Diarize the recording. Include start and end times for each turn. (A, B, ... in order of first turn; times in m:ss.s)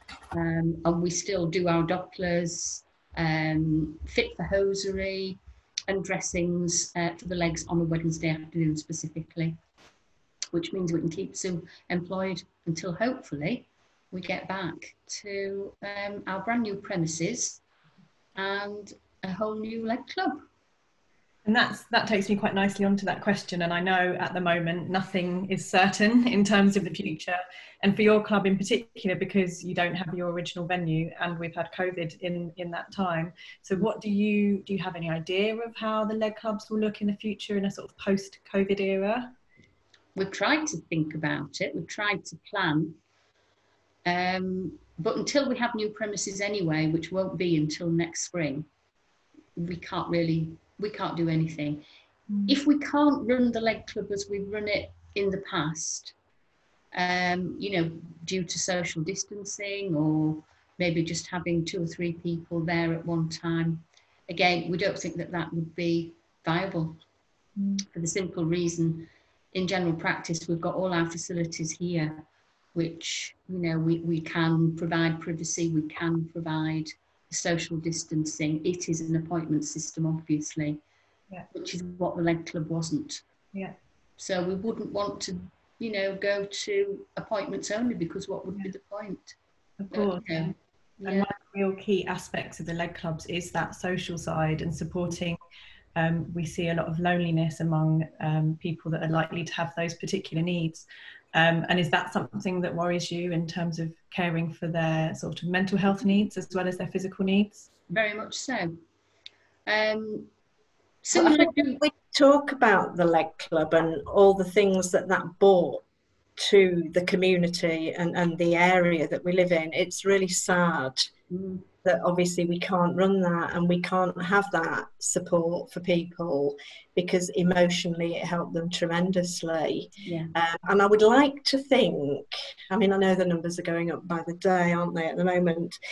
0:00.3-0:09.6 A
0:10.5-0:17.6 A
0:18.4-0:20.4 A
0:21.5-0:39.3 B
0:40.2-0:43.0 A
0:44.0-0:48.7 A
0:49.6-0:51.8 A
0:52.5-0:56.2 A
0:56.9-1:07.0 A
1:07.9-1:12.2 A
1:12.7-1:20.8 A
1:21.5-1:23.2 A
1:24.2-1:29.4 A
1:29.8-1:30.5 B
1:29.9-1:31.3 A
1:31.0-1:35.4 B
1:36.0-1:47.7 B
1:47.9-1:48.7 A
1:49.7-1:50.3 A
1:51.0-1:51.8 A
1:51.1-1:55.8 C
1:56.4-2:01.1 C
2:01.3-2:01.7 A
2:01.8-2:15.8 C
2:10.0-2:10.3 A